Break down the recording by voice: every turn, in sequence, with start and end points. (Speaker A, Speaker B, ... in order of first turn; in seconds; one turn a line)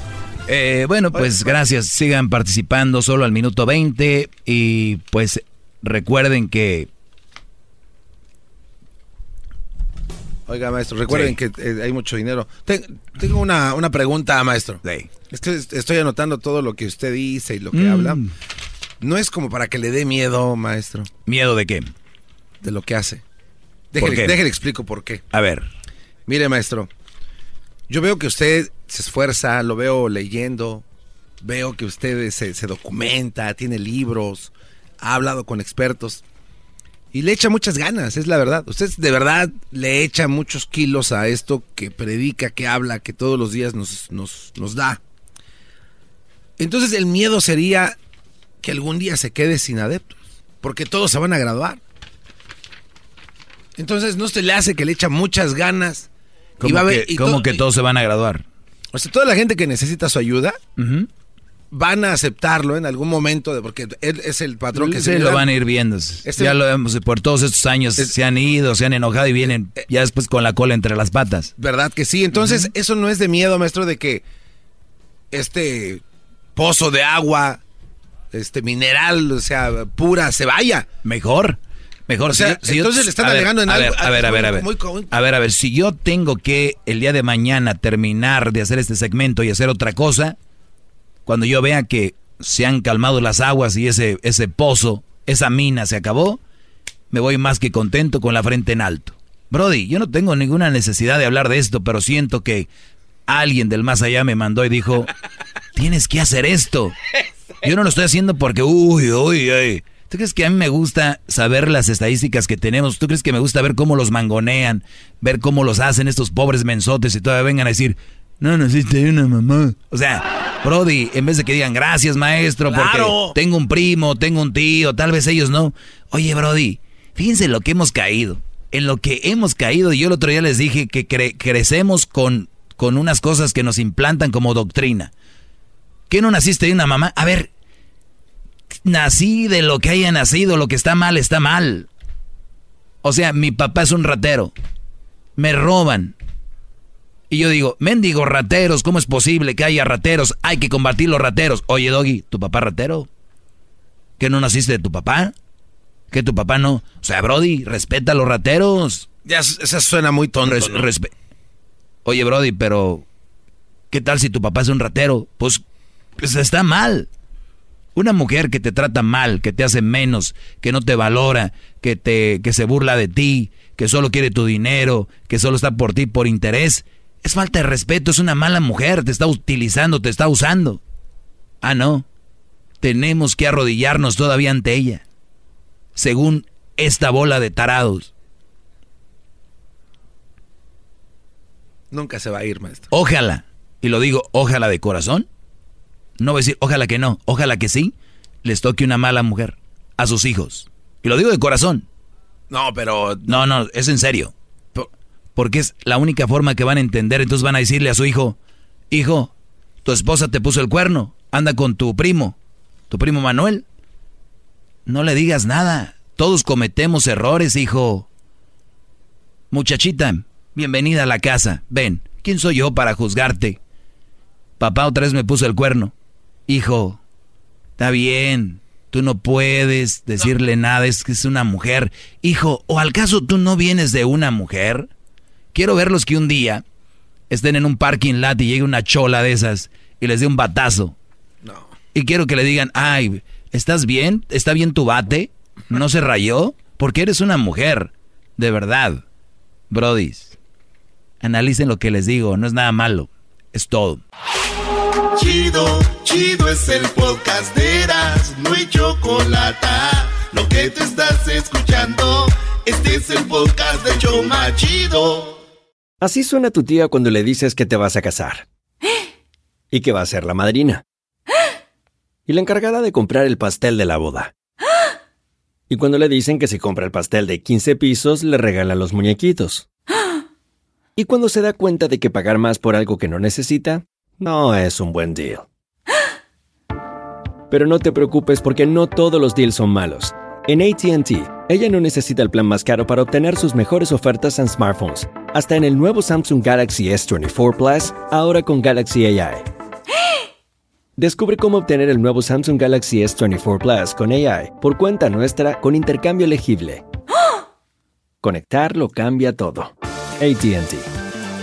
Speaker A: 0.5-6.9
Speaker B: 1.1-1.6
Speaker B: 10.5-18.2
Speaker A: 11.1-11.4
Speaker A: 14.8-15.1
Speaker A: 17.7-18.3
Speaker B: 19.0-21.1
Speaker A: 21.2-21.9
Speaker B: 22.6-23.2
Speaker B: 23.9-25.2
Speaker A: 24.0-24.4
Speaker A: 25.3-25.7
Speaker B: 26.3-26.9
Speaker B: 27.9-30.8
Speaker B: 31.4-36.2
Speaker B: 37.1-45.0
Speaker B: 46.6-47.9
Speaker B: 48.6-51.8
Speaker B: 53.8-56.1
Speaker A: 56.6-58.4
Speaker B: 56.6-57.6
Speaker B: 58.9-60.6
Speaker A: 60.8-61.1
Speaker B: 61.7-65.5
Speaker A: 64.7-71.5
Speaker B: 66.2-66.6
Speaker B: 69.5-69.8
Speaker B: 71.6-74.2
Speaker A: 72.3-72.7
Speaker B: 75.3-76.0
Speaker B: 76.5-77.6
Speaker B: 78.3-80.9
Speaker A: 81.0-90.4
Speaker B: 82.3-85.1
Speaker A: 91.2-96.4
Speaker A: 97.1-102.7
Speaker A: 103.3-105.1
Speaker A: 105.7-106.9
Speaker A: 107.6-135.1
Speaker B: 122.6-123.3
Speaker A: 136.1-137.5
Speaker A: 138.8-141.9
Speaker A: 143.0-144.5
Speaker A: 145.4-146.2
Speaker A: 147.3-153.1
Speaker A: 154.2-155.3
Speaker A: 156.1-159.1
Speaker B: 159.2-160.9
Speaker A: 160.4-161.1
Speaker A: 162.0-163.1
Speaker A: 163.9-165.6
Speaker A: 166.2-167.1
Speaker A: 167.9-180.8
Speaker A: 181.6-182.1
Speaker A: 182.8-185.0
Speaker A: 185.9-188.1
Speaker B: 191.9-192.9
Speaker A: 192.9-195.3
Speaker A: 196.2-201.8
Speaker B: 202.5-203.3
Speaker A: 203.2-208.4
Speaker A: 208.9-209.3
Speaker A: 209.8-212.4
Speaker A: 212.9-213.6
Speaker A: 214.8-218.1
Speaker A: 219.5-223.6
Speaker A: 224.6-225.9
Speaker A: 226.5-227.0
Speaker A: 227.8-234.9
Speaker A: 235.5-236.6
Speaker A: 237.3-240.9
Speaker B: 241.4-241.7
Speaker A: 241.9-249.0
Speaker A: 249.7-250.3
Speaker A: 251.2-254.0
Speaker C: 255.1-265.4
Speaker D: 266.0-268.4
Speaker D: 269.7-270.8
Speaker D: 272.3-274.3
Speaker D: 275.7-279.6
Speaker D: 281.0-285.4
Speaker D: 287.5-299.4
Speaker D: 301.0-306.8
Speaker D: 308.2-310.9